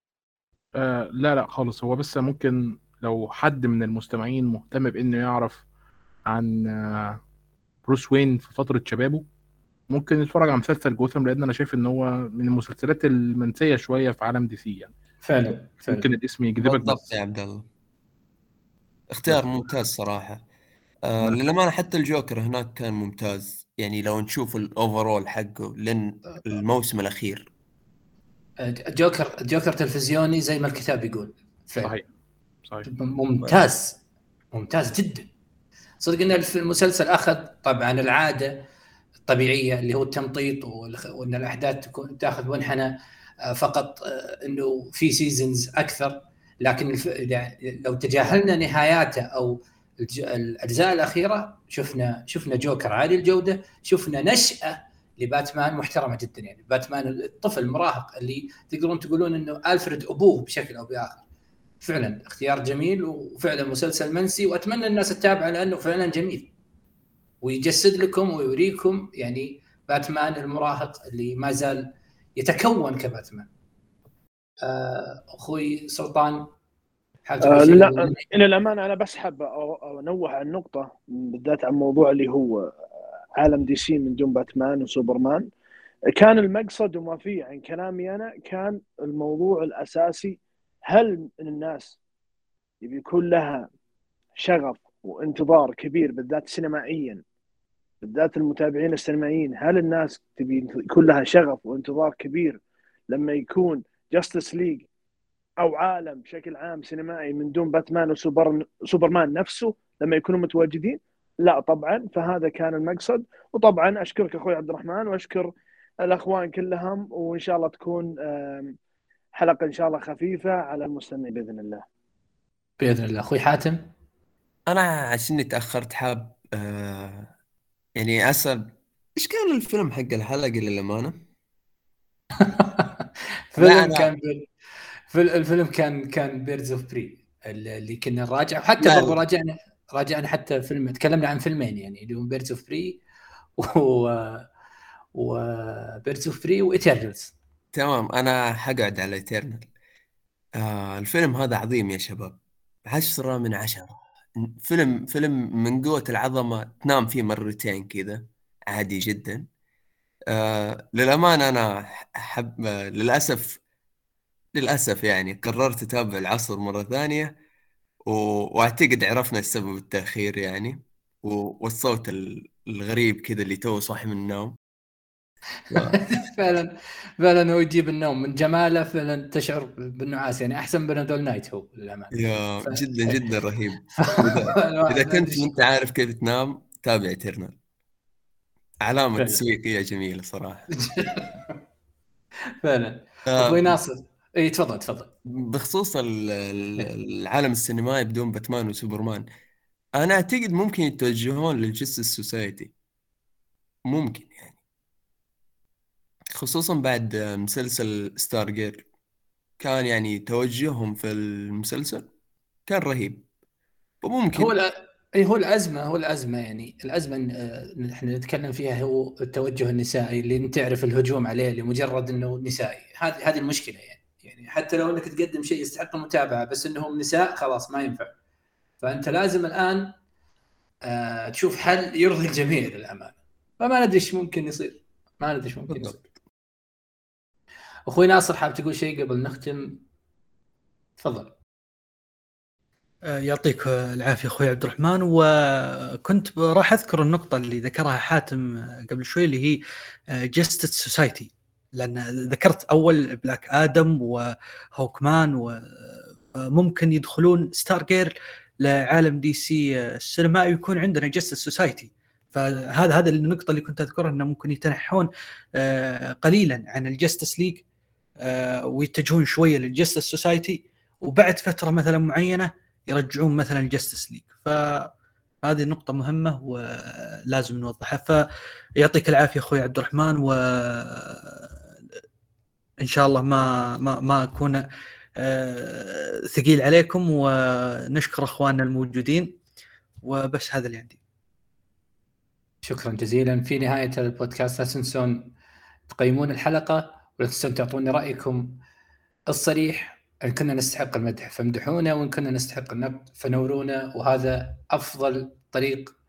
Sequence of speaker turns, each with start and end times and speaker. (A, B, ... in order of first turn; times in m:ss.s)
0:00.7-0:05.6 A
0:06.3-0:07.2 A
0:07.8-0:09.2 A
0:09.9-0:14.9 A
0:15.2-0:16.1 B
0:15.9-0:17.2 A
0:16.6-0:17.7 C
0:19.1-0:20.4 C
0:21.0-0:27.5 C
0:28.6-0:31.9 B
0:32.8-0:34.0 B
0:34.5-0:35.3 B
0:36.0-0:38.6 B
0:39.2-0:42.9 B
0:43.5-1:01.2 B
1:01.8-1:06.5 B
1:07.4-1:13.5 B
1:14.6-1:16.5 B
1:17.2-1:18.2 B
1:17.4-1:22.7 D
1:23.4-1:25.5 D
1:26.2-1:32.0 D
1:32.8-1:33.7 D
1:34.4-1:37.2 D
1:38.0-1:42.6 D
1:43.1-1:44.8 D
1:45.6-1:55.5 D
1:56.0-1:58.8 D
1:59.3-2:01.8 D
2:02.8-2:03.8 B
2:04.7-2:07.3 C
2:08.0-2:11.2 C
2:12.4-2:13.0 B
2:13.5-2:14.5 B
2:13.6-2:14.1 C
2:15.1-2:23.0 B
2:18.8-2:19.2 C
2:23.6-2:24.4 B
2:25.1-2:27.3 B
2:27.7-2:29.7 C
2:30.6-2:39.4 C
2:40.3-2:43.6 C
2:44.6-2:47.3 C
2:48.1-2:54.5 C
2:55.7-2:56.7 B
2:55.7-2:56.5 C
2:57.2-3:03.2 B
3:02.1-3:07.5 C
3:04.0-3:05.5 B
3:08.8-3:10.7 C
3:09.2-3:09.4 B
3:10.8-3:11.5 B
3:12.6-3:15.1 B
3:13.3-3:13.8 C
3:15.3-3:19.2 C
3:20.0-3:22.7 C
3:23.9-3:24.6 C
3:26.3-3:28.8 C
3:29.6-3:32.0 C
3:32.7-3:33.3 C
3:34.0-3:34.5 C
3:34.3-3:48.1 B
3:48.8-3:49.9 B
3:50.9-3:56.0 B
3:57.9-3:59.8 B
4:01.0-4:01.3 B
4:03.1-4:09.6 E
4:10.1-4:27.6 E
4:28.2-4:34.9 E
4:35.4-4:38.2 E
4:38.8-4:41.6 E
4:42.8-4:44.6 E
4:45.2-4:49.4 E
4:50.0-4:51.0 E
4:52.6-4:55.3 B
4:55.9-4:58.5 B
4:59.3-5:05.9 B